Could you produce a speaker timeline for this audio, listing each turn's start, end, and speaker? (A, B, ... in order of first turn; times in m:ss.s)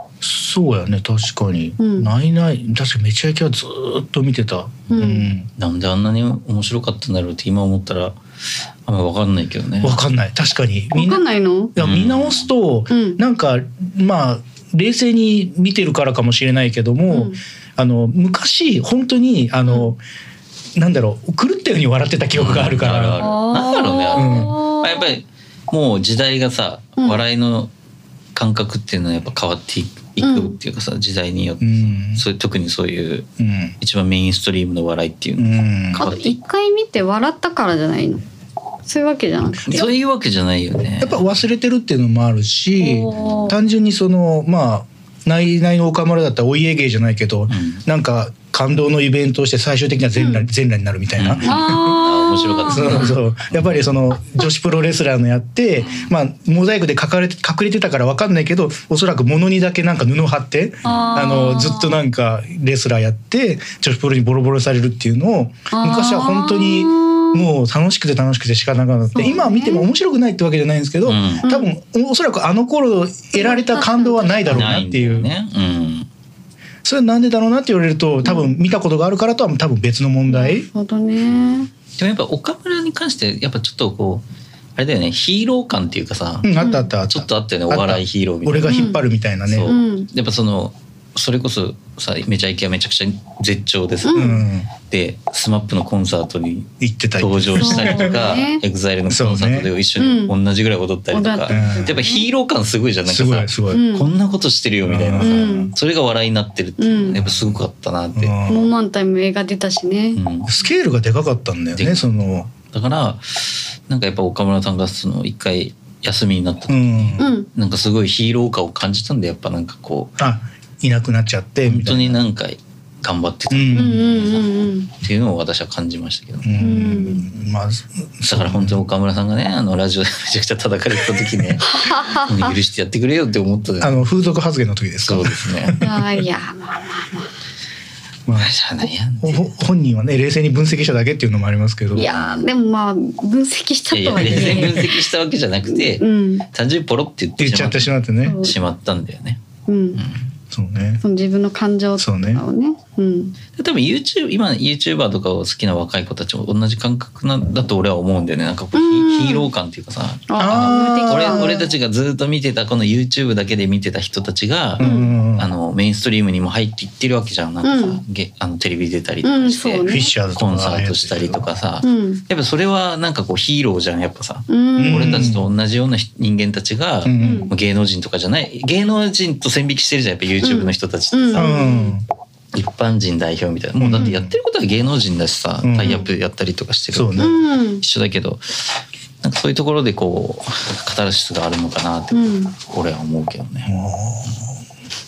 0:00.2-0:05.5 A
0:01.8-0:02.1 B
0:04.9-0:05.3 B
0:04.9-0:08.2 C
0:08.9-0:10.0 C
0:09.8-0:11.2 A
0:10.9-0:11.7 B
0:11.8-0:20.0 A
0:11.8-0:12.5 C
0:12.9-0:13.2 B
0:17.1-0:17.4 B
0:19.6-0:19.9 B
0:20.8-0:23.3 A
0:22.3-0:27.7 C
0:23.2-0:25.1 B
0:24.1-0:24.6 A
0:28.4-0:33.3 C
0:30.2-0:30.6 B
0:31.6-0:32.2 A
0:33.4-0:33.7 A
0:33.8-0:36.4 C
0:35.4-0:36.0 A
0:36.0-0:38.2 B
0:38.8-0:39.9 B
0:39.7-0:41.2 C
0:41.0-0:52.0 A
0:42.8-0:43.6 B
0:47.5-0:47.8 C
0:50.2-0:50.4 B
0:51.2-0:53.9 C
0:51.4-0:53.1 B
0:52.7-1:15.3 A
0:55.8-0:56.1 C
1:00.8-1:01.3 C
1:00.8-1:02.0 B
1:05.7-1:07.4 B
1:09.1-1:09.9 B
1:11.0-1:11.4 C
1:11.4-1:11.7 B
1:13.4-1:14.9 B
1:14.5-1:16.1 C
1:16.8-1:20.7 A
1:18.2-1:18.5 B
1:20.3-1:21.7 B
1:22.0-1:24.2 C
1:24.8-1:26.5 C
1:26.4-1:29.7 A
1:26.6-1:26.9 B
1:27.1-1:48.4 C
1:28.7-1:29.0 B
1:29.6-1:30.1 B
1:34.0-1:34.4 B
1:34.1-1:34.7 A
1:36.8-1:38.2 A
1:37.6-1:38.6 B
1:39.1-1:39.7 A
1:40.0-1:40.4 B
1:41.1-1:42.2 B
1:41.5-1:42.0 A
1:43.1-1:43.8 A
1:43.7-1:44.1 B
1:44.8-1:45.7 A
1:45.2-1:45.7 B
1:46.8-1:47.2 B
1:47.2-1:47.6 A
1:48.1-1:48.7 A
1:48.5-1:50.2 B
1:50.1-1:50.5 C
1:50.4-1:52.5 A
1:51.8-1:52.1 C
1:52.7-2:00.1 C
1:56.7-1:57.3 A
1:57.2-1:57.5 B
2:00.2-2:02.2 A
2:01.6-2:06.6 C
2:03.5-2:04.0 A
2:03.7-2:04.9 B
2:06.4-2:08.8 A
2:06.6-2:07.3 B
2:08.3-2:14.0 C
2:11.6-2:12.6 B
2:13.8-2:16.1 A
2:15.0-2:15.8 C
2:15.8-2:17.3 B
2:18.3-2:18.5 A
2:18.4-2:19.5 C
2:19.2-2:22.1 A
2:21.9-2:25.0 B
2:22.0-2:22.4 C
2:23.9-2:29.4 C
2:24.2-2:24.8 A
2:25.7-2:26.4 B
2:27.4-2:28.4 A
2:28.2-2:28.6 B
2:29.7-2:30.0 B
2:30.0-2:30.2 C
2:30.5-2:31.0 A
2:31.0-2:33.4 B
2:32.0-2:32.4 A
2:33.6-3:01.5 C
2:38.7-2:39.5 B
2:40.3-2:41.7 B
2:40.4-2:41.6 A
2:44.8-2:45.5 A
2:44.8-2:45.1 B
2:47.6-2:48.0 B
2:49.2-2:50.1 B
2:49.9-2:51.4 A
2:51.8-2:52.2 B
2:54.5-2:55.4 B
2:54.8-2:55.5 A
2:57.0-2:57.5 A
2:57.2-2:57.5 B
3:00.4-3:02.0 B
3:01.4-3:02.0 A
3:02.5-3:13.7 C
3:03.8-3:04.3 A
3:05.6-3:06.0 A
3:05.8-3:06.1 B
3:06.9-3:07.4 A
3:07.2-3:07.8 B
3:12.1-3:12.5 B
3:13.6-3:14.6 A